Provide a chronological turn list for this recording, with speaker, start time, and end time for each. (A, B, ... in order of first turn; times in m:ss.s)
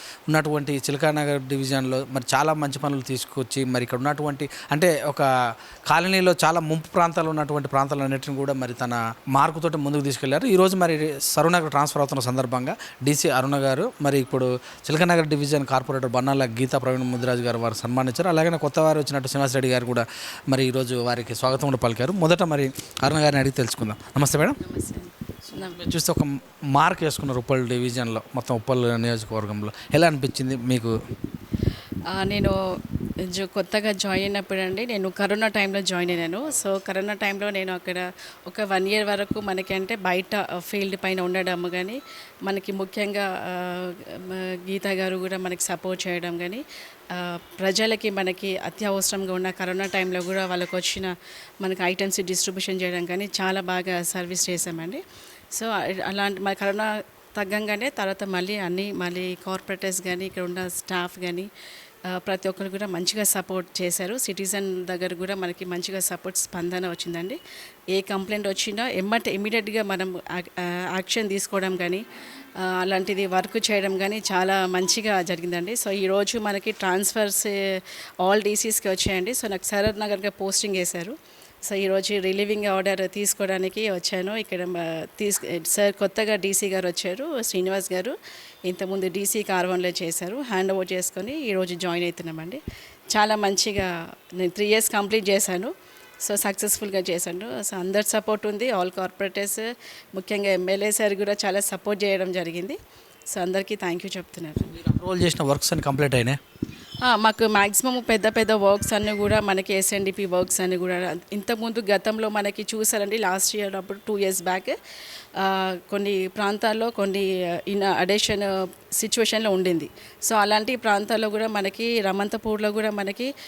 0:00.3-0:05.3 A
0:05.9-0:24.6 A
0:24.6-0:25.8 B
0:25.5-0:31.0 A
0:32.1-0:32.6 B
0:33.3-1:01.5 B
1:02.1-1:07.4 B
1:07.9-1:12.0 B
1:12.6-1:32.6 B
1:33.1-1:42.8 B
1:43.3-1:44.7 B
1:44.7-1:46.4 A
1:47.0-1:54.8 B
1:55.4-2:03.3 B